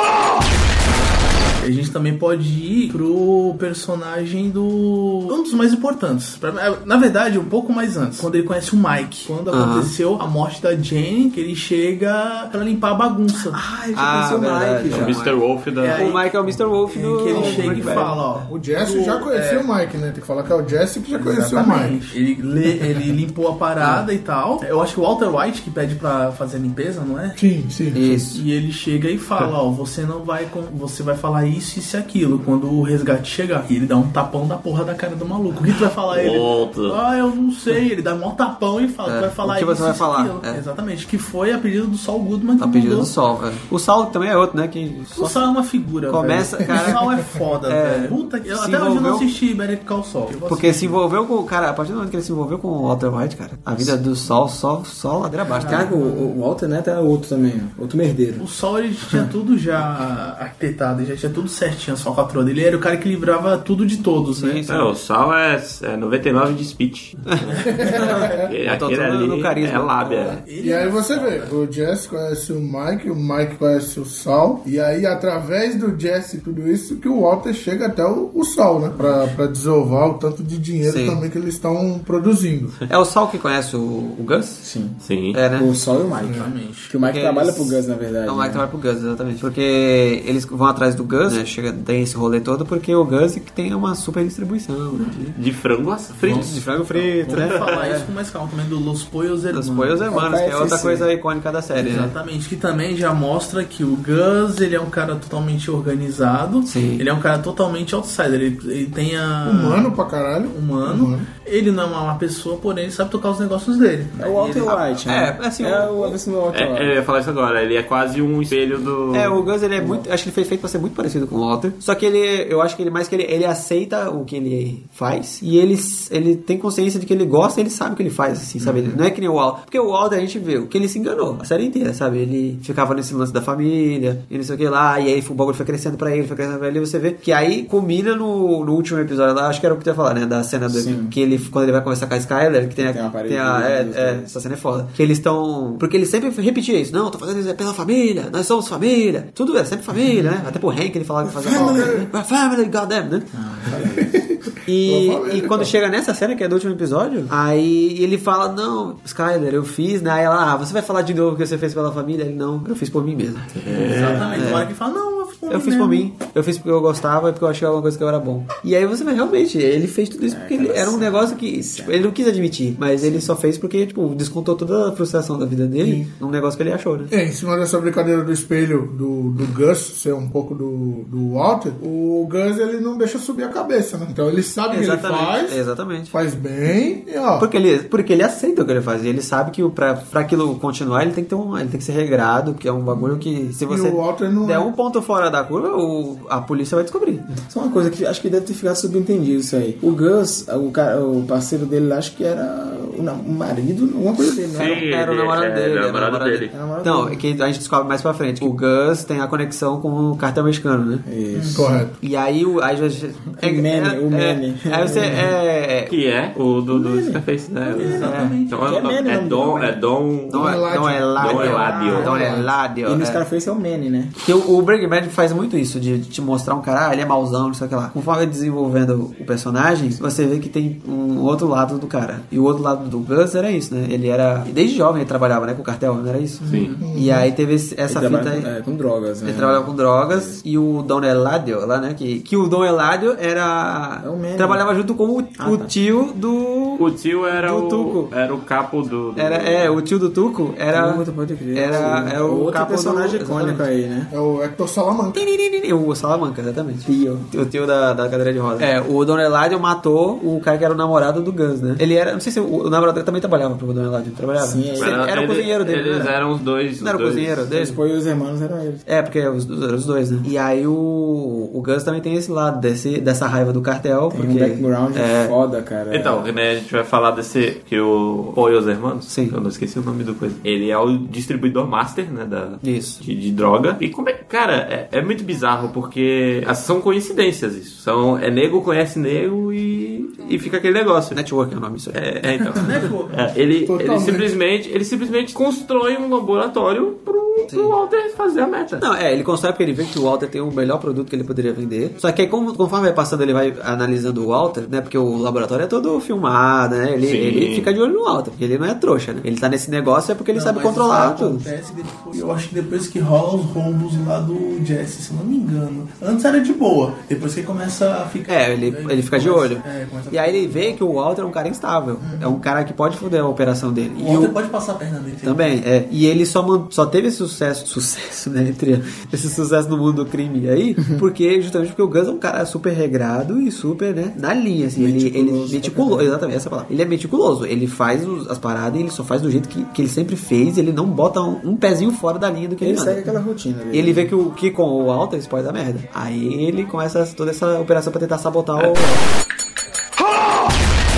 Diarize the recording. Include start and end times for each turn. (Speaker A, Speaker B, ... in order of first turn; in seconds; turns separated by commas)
Speaker A: 1.6-13.6, Speaker B: 9.5-9.9, Speaker C: 13.4-15.2, Speaker B: 13.9-15.4, Speaker D: 14.9-16.2, Speaker A: 15.8-16.4, Speaker B: 15.9-18.2, Speaker A: 16.9-19.7, Speaker E: 17.3-22.0, Speaker A: 21.2-27.4, Speaker B: 23.8-24.1, Speaker E: 27.4-28.2, Speaker B: 27.9-28.4, Speaker A: 28.2-43.1, Speaker D: 36.1-37.0, Speaker B: 39.1-40.6, Speaker B: 42.6-45.4, Speaker A: 45.1-51.0, Speaker B: 46.1-47.1, Speaker B: 47.7-49.4, Speaker B: 50.5-55.9, Speaker A: 55.4-56.3, Speaker C: 55.6-58.4, Speaker A: 58.4-64.7, Speaker B: 64.3-64.9, Speaker D: 64.7-67.5, Speaker A: 67.5-68.0, Speaker E: 67.7-68.5, Speaker B: 68.0-70.4, Speaker D: 68.2-70.4, Speaker A: 70.5-71.5, Speaker E: 70.6-82.8, Speaker B: 80.8-81.2, Speaker B: 82.9-84.6, Speaker C: 84.6-85.0, Speaker D: 85.0-85.4, Speaker B: 85.3-85.7, Speaker C: 85.5-88.7, Speaker E: 86.2-86.5, Speaker A: 86.3-86.9, Speaker B: 87.0-95.4, Speaker D: 95.4-96.7, Speaker A: 96.2-100.1, Speaker B: 96.3-98.1, Speaker D: 97.3-97.7, Speaker B: 99.5-102.1, Speaker C: 100.1-101.1, Speaker A: 101.8-109.9, Speaker B: 106.7-107.1, Speaker E: 109.4-111.3, Speaker A: 110.5-114.7, Speaker C: 114.2-117.0, Speaker B: 114.6-116.2, Speaker D: 116.5-119.5, Speaker B: 119.1-153.3, Speaker C: 119.8-120.0, Speaker C: 128.6-129.0, Speaker C: 140.7-141.2, Speaker C: 142.8-144.3, Speaker C: 149.9-150.4, Speaker E: 151.4-152.1, Speaker C: 151.4-152.0, Speaker C: 153.3-154.1, Speaker E: 153.8-155.7, Speaker B: 154.7-163.5, Speaker D: 163.6-164.5, Speaker A: 163.8-166.1, Speaker B: 164.3-164.7, Speaker B: 165.5-177.1, Speaker C: 170.3-172.1, Speaker C: 173.0-173.3, Speaker E: 175.8-176.1, Speaker E: 177.1-187.5, Speaker B: 184.7-186.1, Speaker B: 187.4-197.3, Speaker E: 193.7-194.7, Speaker C: 197.4-204.9, Speaker D: 204.5-206.5, Speaker B: 204.8-211.0, Speaker C: 206.5-207.2, Speaker C: 211.1-211.8, Speaker A: 211.3-211.8, Speaker E: 211.5-211.9, Speaker B: 212.0-215.9, Speaker C: 213.4-215.3, Speaker D: 215.9-220.6, Speaker C: 216.7-217.2, Speaker A: 217.7-218.8, Speaker C: 217.8-219.8, Speaker B: 218.0-218.4, Speaker B: 220.3-223.2, Speaker E: 220.3-222.5, Speaker D: 221.2-222.2, Speaker C: 221.3-224.1, Speaker B: 224.2-238.5, Speaker A: 236.4-236.9, Speaker D: 236.4-236.8, Speaker E: 236.8-237.3, Speaker C: 237.9-240.4, Speaker B: 239.2-248.1, Speaker C: 244.0-244.7, Speaker C: 245.4-245.7, Speaker D: 246.8-249.8, Speaker B: 249.2-253.7, Speaker C: 250.7-254.1, Speaker E: 254.1-255.2, Speaker B: 255.1-266.2, Speaker C: 256.9-257.3, Speaker C: 264.4-265.0, Speaker D: 264.8-267.4, Speaker B: 266.8-267.8, Speaker C: 267.5-268.9, Speaker B: 268.9-275.3, Speaker C: 274.1-276.3, Speaker D: 275.9-291.2, Speaker B: 279.1-279.4, Speaker B: 282.6-283.0, Speaker B: 291.1-292.9, Speaker D: 291.9-298.8, Speaker A: 292.5-293.3, Speaker E: 293.6-294.3, Speaker B: 297.5-297.8, Speaker B: 298.8-311.5, Speaker D: 307.0-307.7, Speaker A: 310.3-320.8, Speaker B: 318.3-324.4, Speaker A: 322.0-322.4, Speaker A: 324.0-325.6, Speaker B: 325.2-343.1, Speaker C: 334.8-336.2, Speaker C: 342.6-344.1, Speaker B: 343.7-349.0